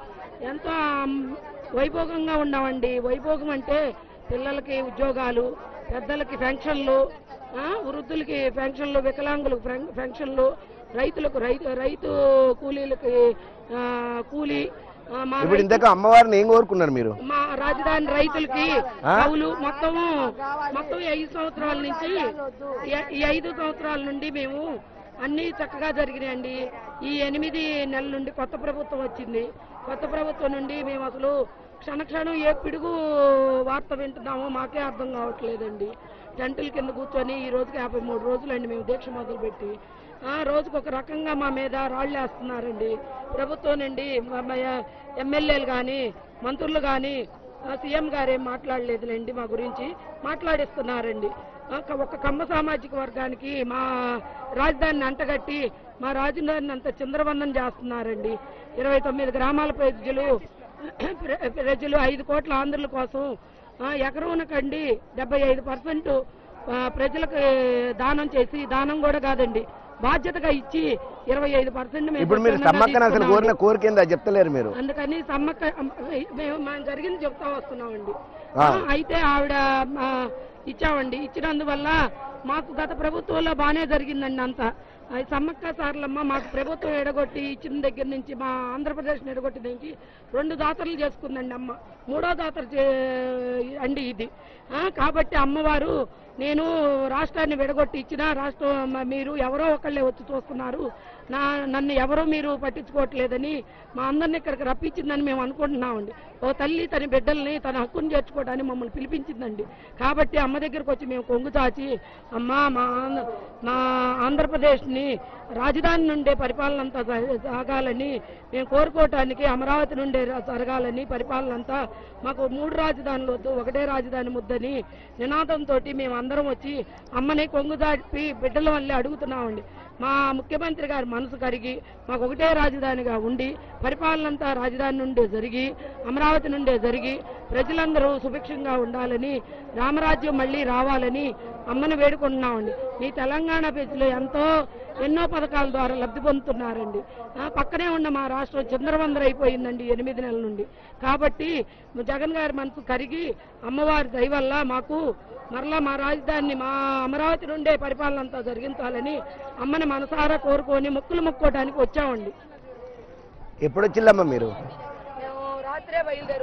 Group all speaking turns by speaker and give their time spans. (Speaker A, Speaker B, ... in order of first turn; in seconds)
Speaker A: 0.5-7.0, 7.5-14.7, 15.2-15.8, 17.2-20.2, 20.7-22.3, 22.9-24.6, 25.2-39.7, 40.3-60.3, 60.9-66.2, 66.7-67.4, 68.0-73.5, 74.8-82.0, 82.5-144.5, 145.0-162.3
Speaker B: 15.4-17.2, 19.1-19.3, 72.2-74.7, 78.6-78.8, 163.6-164.5